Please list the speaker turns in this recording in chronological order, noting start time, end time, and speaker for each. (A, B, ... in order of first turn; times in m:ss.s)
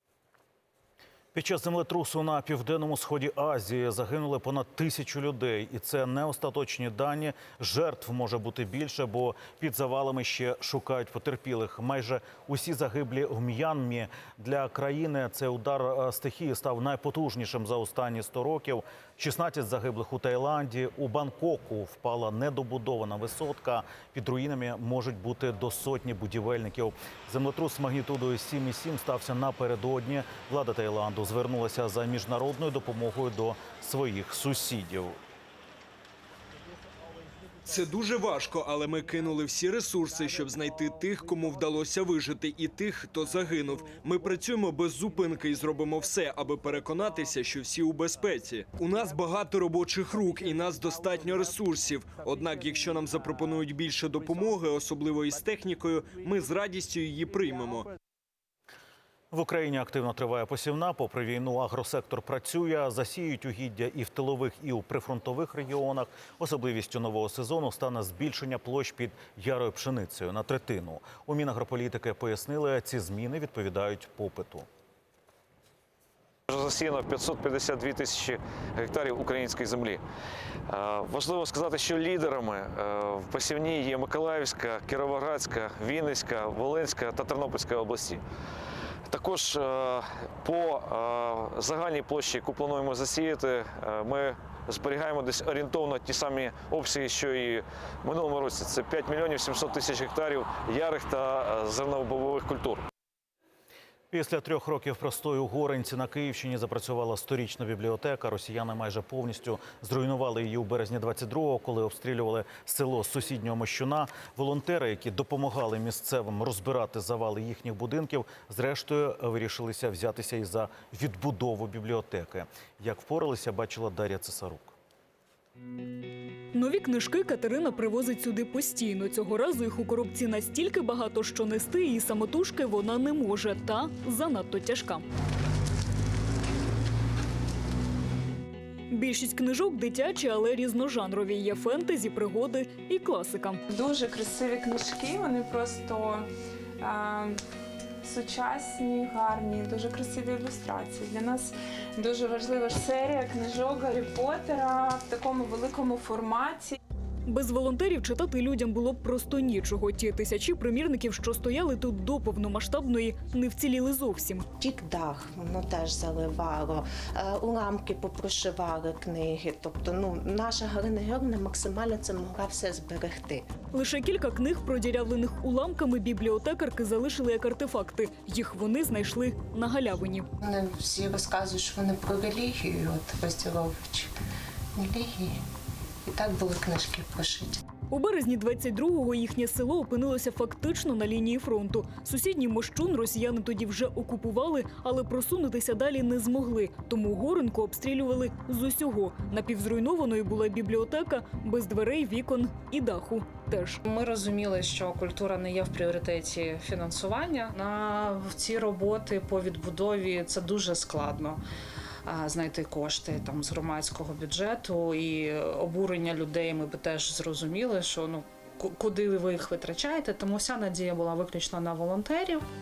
0:01.3-0:35.2 A
0:37.6-0:57.9 B
0:59.3-1:14.6 A
1:16.5-1:20.0 C
1:20.7-1:28.2 C
1:29.1-1:42.8 C
1:44.1-2:04.7 A
2:06.5-2:15.0 D
2:18.9-2:23.6 D
2:23.7-2:26.3 E
2:26.8-2:27.4 E
2:28.0-2:36.8 E
2:37.3-2:44.4 D
2:44.6-2:53.4 F
2:53.7-3:00.2 D
3:00.4-3:04.1 F
3:04.8-3:05.3 F
3:06.1-3:07.5 F
3:07.9-3:23.8 D
3:23.8-3:31.4 G
3:32.0-3:42.4 G